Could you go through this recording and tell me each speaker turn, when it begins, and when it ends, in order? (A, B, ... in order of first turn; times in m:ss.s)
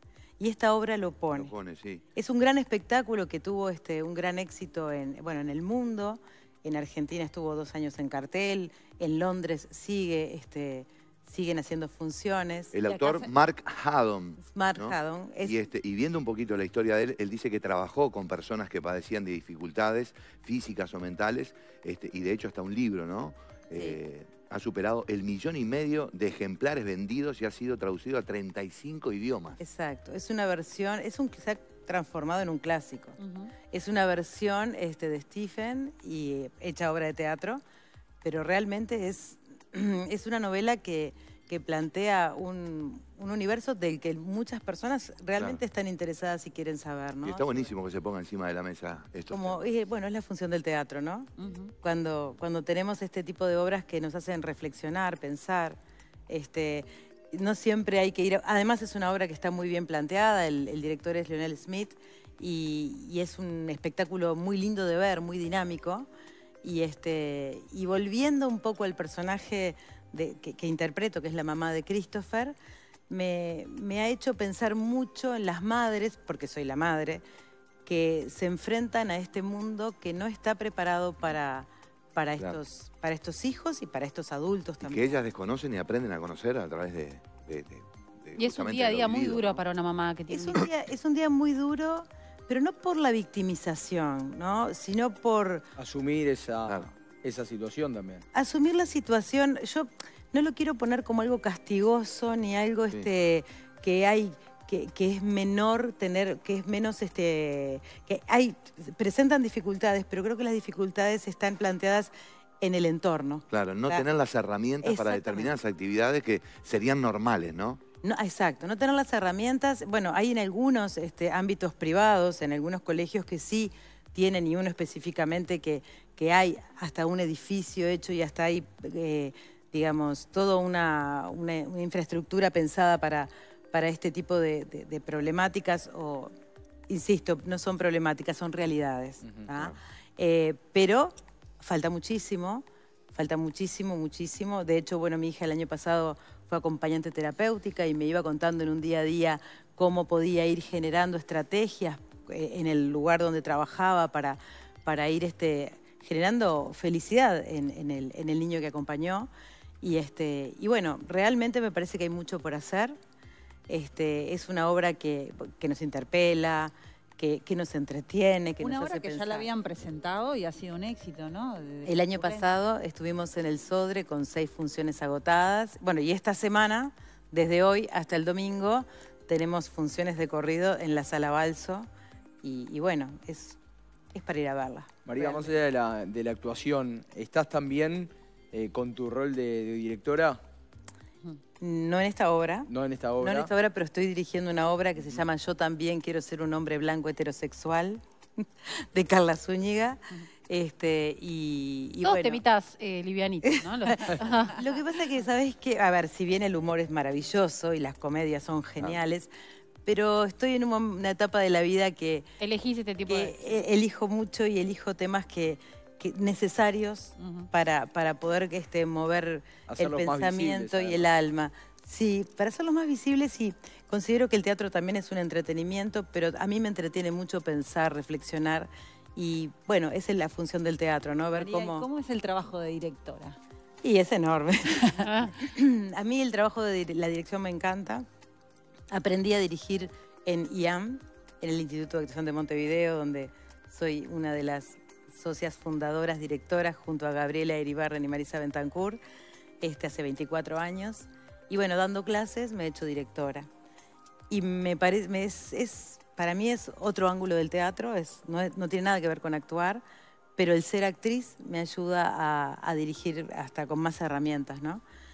0:00.4-0:01.5 A
0:01.3-0:02.0 B
0:02.1-0:12.8 A
0:12.7-0:29.6 B
0:14.4-0:15.6 A
0:23.7-0:24.0 A
0:29.6-0:37.6 A
0:33.2-0:33.5 C
0:38.2-0:47.7 A
0:45.4-0:45.6 B
0:47.2-0:49.6 B
0:49.3-0:51.3 A
0:51.4-0:51.7 C
0:51.8-1:06.1 A
1:06.6-1:12.6 A
1:13.1-1:17.2 A
1:17.9-1:25.2 A
1:24.8-1:29.6 B
1:28.4-1:30.7 D
1:30.3-1:35.7 A
1:35.8-1:38.2 E
1:38.3-1:54.1 A
1:53.5-1:57.8 B
1:54.8-1:55.5 A
1:58.0-2:16.3 A
2:16.9-2:39.3 A
2:19.5-2:19.8 B
2:39.8-2:43.0 A
2:43.7-2:49.5 A
2:48.6-2:52.5 C
2:51.9-3:01.9 A
3:02.4-3:03.6 A
3:04.1-3:05.6 A
3:05.1-3:10.4 E
3:11.6-3:12.7 A
3:12.7-3:13.5 E
3:13.2-3:18.0 A
3:18.6-3:22.4 A
3:22.0-3:24.6 D
3:23.5-3:29.3 A
3:29.8-3:32.3 A
3:32.4-3:33.4 D
3:33.1-3:51.9 A
3:37.2-3:37.5 C
3:39.7-3:41.1 E
3:51.3-3:53.4 C
3:53.8-3:58.0 A
3:55.0-3:55.3 D
3:58.9-4:09.0 A
4:09.6-4:13.5 A
4:14.3-4:19.8 A
4:20.4-4:24.8 A